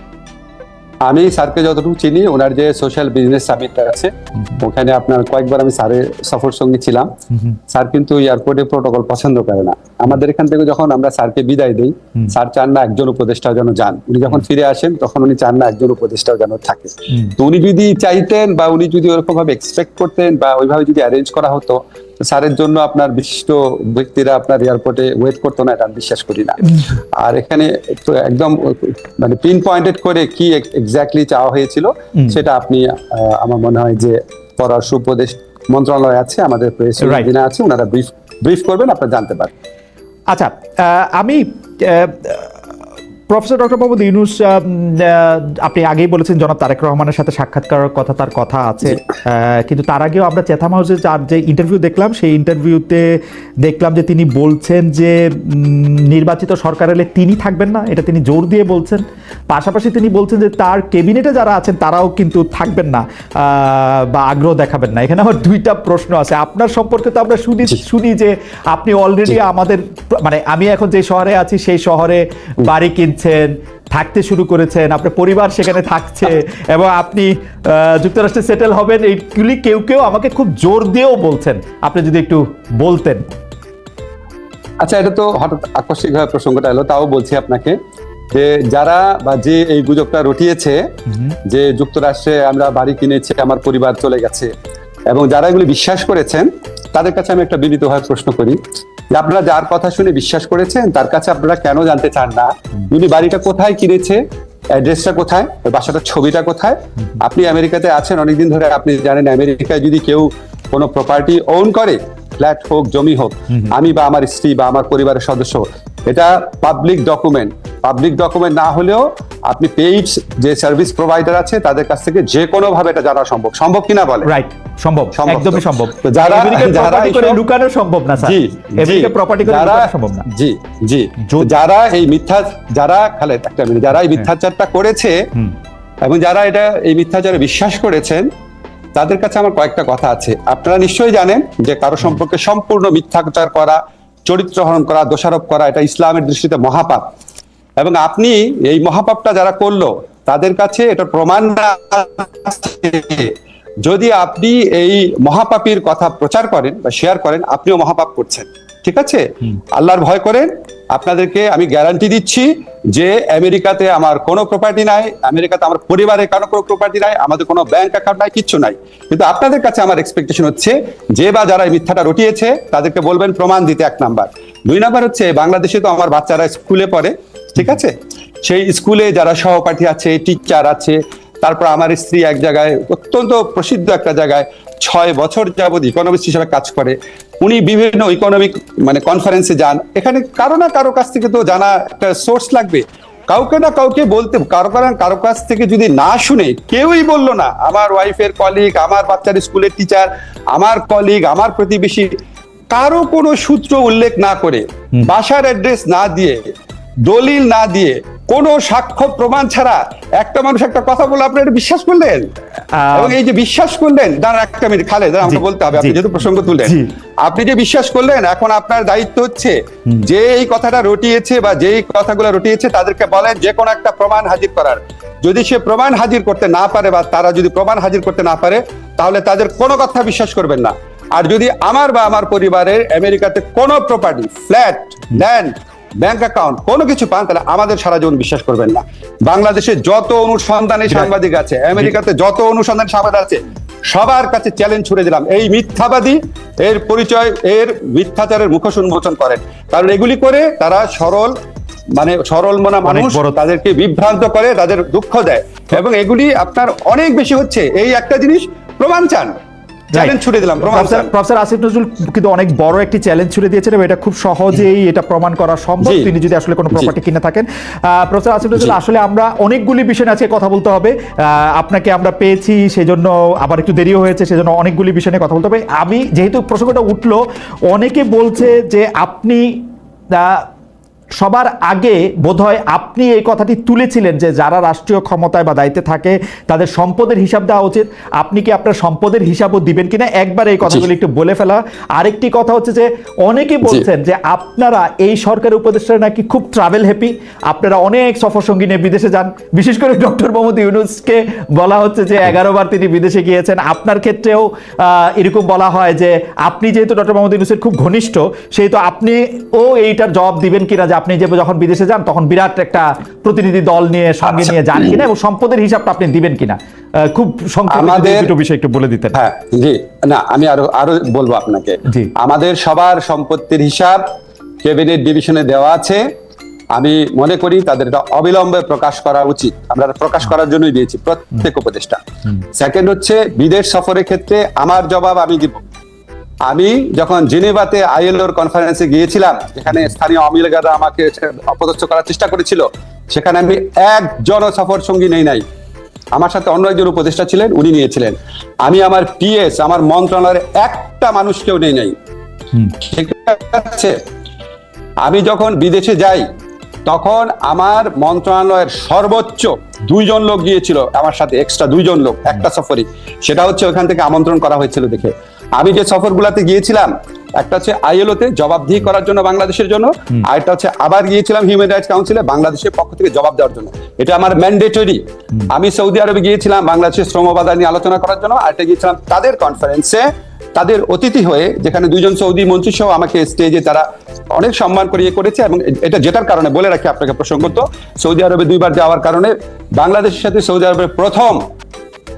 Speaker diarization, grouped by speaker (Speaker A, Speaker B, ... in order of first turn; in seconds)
Speaker A: 1.1-7.1, 7.7-26.6, 27.2-39.5, 84.8-87.8, 88.3-90.8, 91.5-94.5, 95.1-98.6, 99.1-124.3, 125.2-127.4, 128.2-135.2, 136.0-138.3, 138.9-147.1, 147.8-202.1, 202.7-206.4, 207.1-212.3, 212.9-251.3, 252.0-259.3, 259.9-261.1, 265.8-266.1, 314.2-315.0, 317.7-318.3, 319.1-324.0, 324.6-326.0, 326.7-332.0, 332.6-335.6, 336.5-345.4, 346.1-351.9, 352.8-354.0, 355.0-356.3, 356.9-391.4
Speaker B: 7.3-7.6, 37.0-37.3, 40.3-42.5, 43.3-53.1, 53.6-83.2, 124.2-130.3, 131.2-131.5, 212.8-213.2, 215.3-216.0, 216.6-216.9, 252.8-253.4, 259.9-280.5, 281.2-319.2, 321.9-322.1